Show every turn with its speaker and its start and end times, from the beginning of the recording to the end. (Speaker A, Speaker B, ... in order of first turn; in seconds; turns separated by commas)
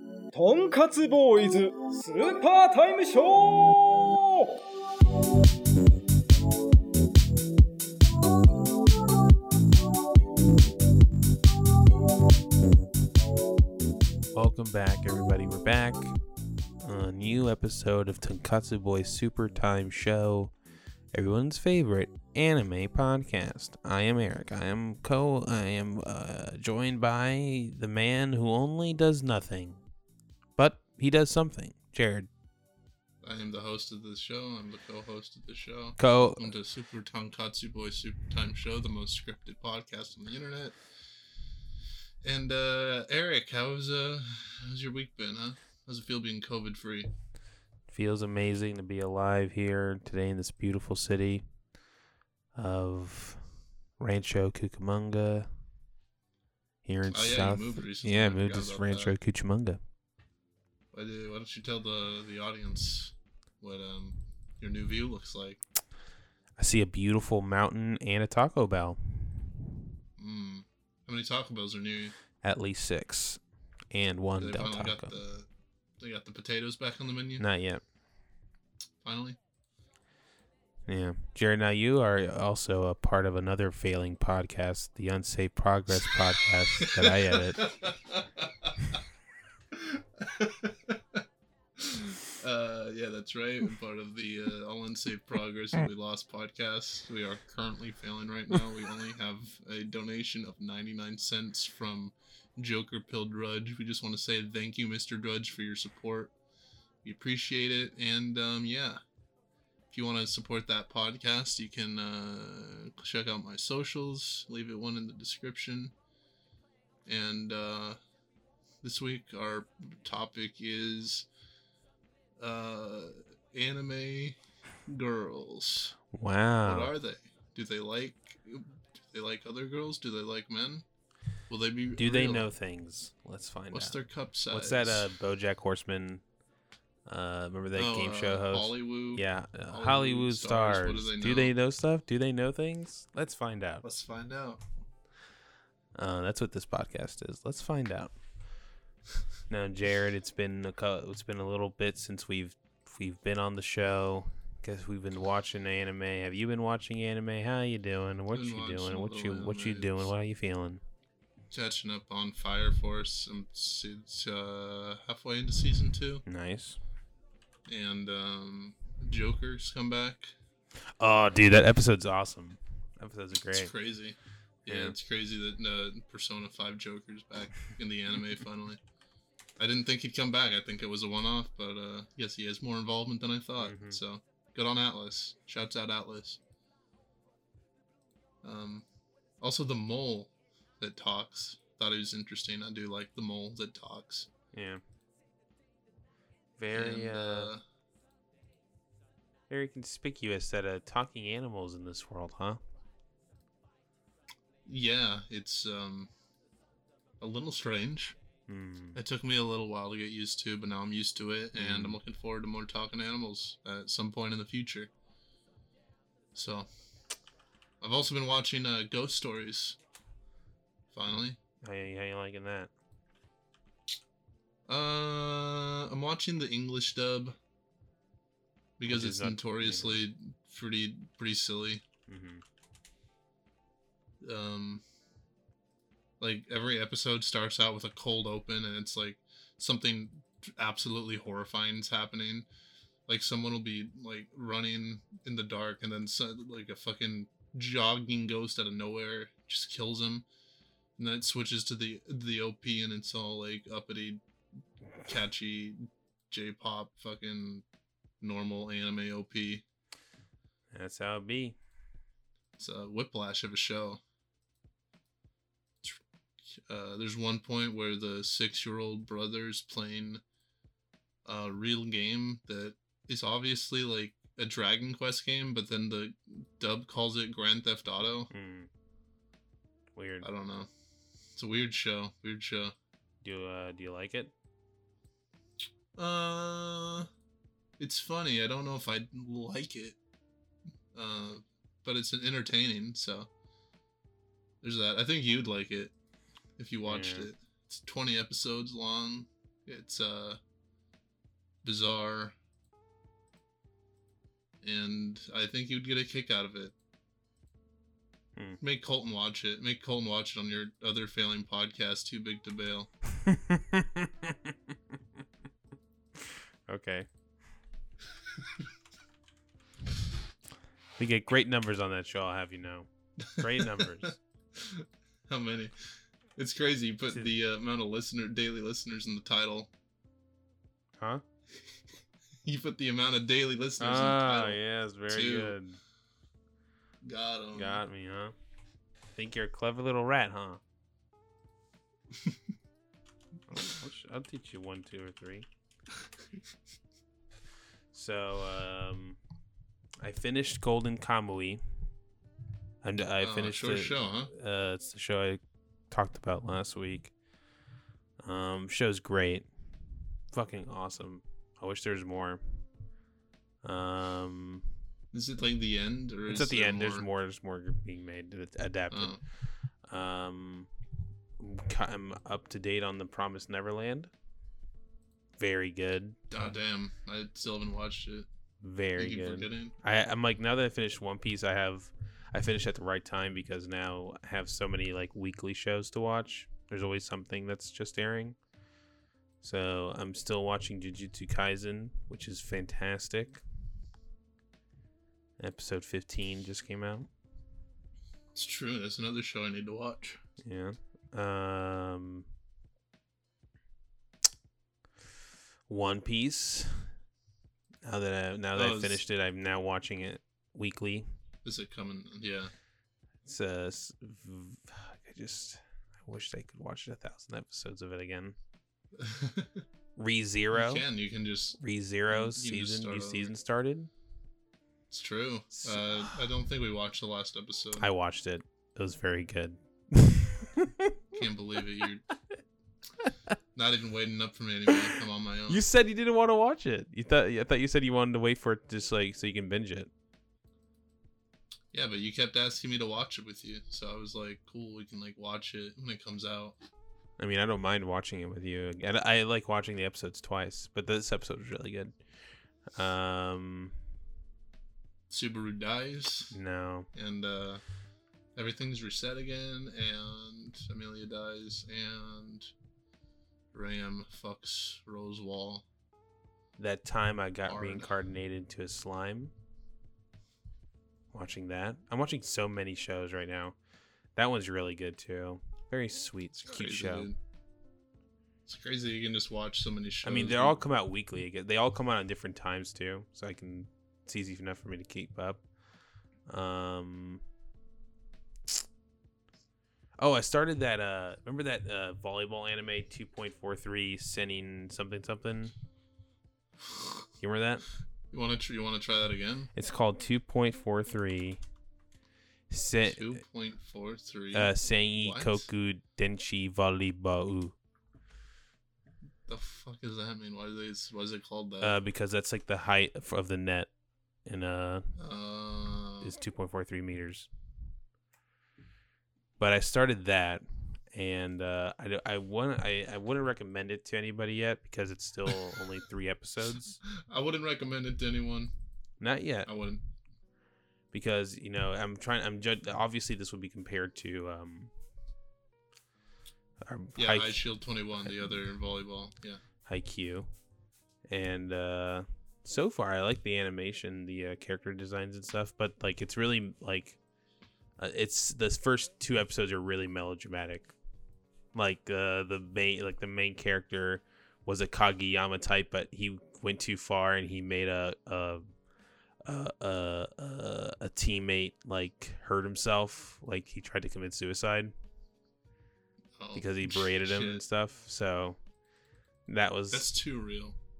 Speaker A: 0.3-4.5, Speaker B: 14.3-16.1, Speaker B: 16.8-20.5, Speaker B: 21.1-29.8, Speaker B: 30.6-32.3, Speaker C: 33.2-40.8, Speaker B: 36.0-36.5, Speaker C: 42.2-47.1, Speaker B: 47.9-51.5, Speaker B: 52.5-53.4, Speaker B: 54.0-55.5, Speaker B: 56.9-59.8, Speaker C: 57.1-59.2, Speaker C: 60.9-65.6, Speaker B: 66.6-69.6, Speaker C: 70.2-72.2, Speaker B: 72.4-75.1, Speaker C: 74.4-75.5, Speaker C: 76.0-77.4, Speaker B: 77.4-77.8, Speaker C: 79.0-79.4, Speaker B: 80.9-87.7, Speaker C: 86.8-89.0, Speaker C: 89.7-91.2, Speaker C: 91.8-106.3, Speaker C: 107.0-109.0, Speaker C: 109.9-115.9, Speaker C: 117.0-118.0, Speaker C: 118.8-121.3, Speaker C: 122.4-126.0, Speaker B: 126.1-126.9, Speaker C: 126.6-130.8, Speaker C: 131.5-132.5, Speaker B: 132.0-136.2, Speaker C: 133.7-135.1, Speaker B: 137.1-143.8, Speaker C: 137.8-141.5, Speaker C: 143.8-144.6, Speaker B: 145.9-148.1, Speaker B: 149.5-160.8, Speaker C: 158.3-160.1, Speaker C: 161.5-166.2, Speaker B: 166.3-166.8, Speaker C: 167.7-170.3, Speaker B: 171.0-173.7, Speaker C: 173.5-178.8, Speaker B: 174.7-174.9, Speaker C: 179.6-186.4, Speaker B: 183.6-184.0, Speaker C: 188.4-188.9, Speaker C: 189.4-194.3, Speaker B: 194.5-194.8, Speaker B: 196.6-197.5, Speaker C: 196.7-197.6, Speaker B: 199.5-202.6, Speaker C: 204.7-206.1, Speaker C: 207.2-208.2, Speaker B: 208.5-209.0, Speaker C: 208.9-214.9, Speaker B: 211.6-212.0, Speaker C: 216.3-216.7, Speaker C: 217.8-219.8, Speaker C: 220.9-221.4, Speaker B: 221.6-222.7, Speaker C: 224.7-227.4, Speaker C: 228.8-231.8, Speaker B: 228.9-230.0, Speaker B: 232.1-232.4, Speaker C: 234.2-234.8, Speaker C: 236.2-242.5, Speaker C: 243.1-250.3, Speaker C: 251.0-254.2, Speaker C: 255.1-257.6, Speaker C: 258.2-259.6, Speaker B: 260.7-261.6, Speaker C: 262.6-264.0, Speaker C: 265.8-270.2, Speaker C: 271.2-278.3, Speaker B: 278.3-278.7, Speaker B: 280.0-280.3, Speaker C: 280.2-280.7, Speaker C: 281.4-282.8, Speaker B: 283.2-284.3, Speaker C: 286.0-287.1, Speaker C: 287.8-290.0, Speaker C: 290.9-293.3, Speaker C: 294.6-295.9, Speaker C: 296.6-300.4, Speaker B: 296.9-297.3, Speaker C: 301.6-302.4, Speaker C: 304.6-306.8, Speaker C: 308.6-312.9, Speaker B: 313.2-314.7, Speaker B: 316.2-317.1, Speaker B: 321.0-324.1, Speaker C: 323.3-329.7, Speaker B: 331.0-331.2, Speaker C: 332.4-335.6, Speaker B: 333.8-335.8, Speaker C: 337.0-337.8, Speaker B: 337.5-338.4, Speaker B: 339.1-340.6, Speaker B: 343.5-345.5, Speaker B: 347.9-349.2, Speaker B: 350.0-351.6, Speaker B: 352.8-357.1, Speaker C: 353.2-354.3, Speaker B: 358.2-359.5, Speaker B: 360.3-362.6, Speaker B: 363.6-364.6, Speaker C: 365.1-367.1, Speaker B: 366.3-370.7, Speaker C: 368.9-369.2, Speaker B: 371.4-374.1, Speaker B: 375.4-376.2, Speaker C: 376.3-378.3, Speaker B: 378.6-388.4, Speaker C: 379.0-379.7, Speaker B: 389.4-393.4, Speaker B: 395.4-397.1, Speaker C: 398.4-400.2, Speaker B: 400.4-402.3, Speaker B: 405.7-406.9, Speaker B: 407.9-411.1, Speaker C: 408.6-409.0, Speaker C: 411.4-412.5, Speaker B: 413.2-418.4, Speaker C: 418.9-419.6, Speaker B: 420.0-420.9, Speaker C: 420.5-421.6, Speaker B: 421.6-423.9, Speaker C: 422.1-423.3, Speaker C: 424.9-427.9, Speaker B: 425.6-426.2, Speaker B: 427.8-431.0, Speaker C: 431.1-432.1, Speaker B: 433.0-433.4, Speaker C: 433.6-435.6, Speaker B: 435.5-439.9, Speaker C: 441.7-446.6, Speaker B: 447.2-452.0, Speaker B: 452.8-453.8, Speaker C: 455.1-456.4, Speaker B: 456.3-456.9, Speaker C: 456.9-457.6, Speaker C: 458.4-462.5, Speaker C: 463.5-465.7, Speaker B: 466.6-469.3, Speaker C: 467.5-467.9, Speaker B: 471.1-473.6, Speaker B: 474.2-477.1, Speaker C: 476.4-477.2, Speaker C: 478.5-480.6, Speaker B: 480.0-485.4, Speaker B: 486.3-487.2, Speaker B: 490.0-495.5, Speaker B: 497.2-497.6, Speaker C: 498.1-499.5, Speaker B: 499.6-501.4, Speaker B: 502.5-503.2, Speaker C: 502.9-505.5, Speaker B: 504.3-507.6, Speaker C: 509.2-511.8, Speaker B: 511.6-513.7, Speaker B: 514.2-514.9, Speaker C: 515.0-516.1, Speaker B: 516.0-517.3, Speaker B: 519.4-526.8, Speaker C: 527.0-528.5, Speaker B: 529.0-529.5, Speaker C: 529.5-529.8, Speaker B: 530.9-534.7, Speaker B: 536.6-537.5, Speaker C: 537.0-539.4, Speaker B: 539.6-540.3, Speaker B: 541.1-547.0, Speaker B: 547.8-550.8, Speaker B: 551.5-558.5, Speaker B: 559.2-564.7, Speaker C: 566.2-567.4, Speaker B: 566.3-568.4, Speaker B: 569.3-569.9, Speaker C: 569.7-570.6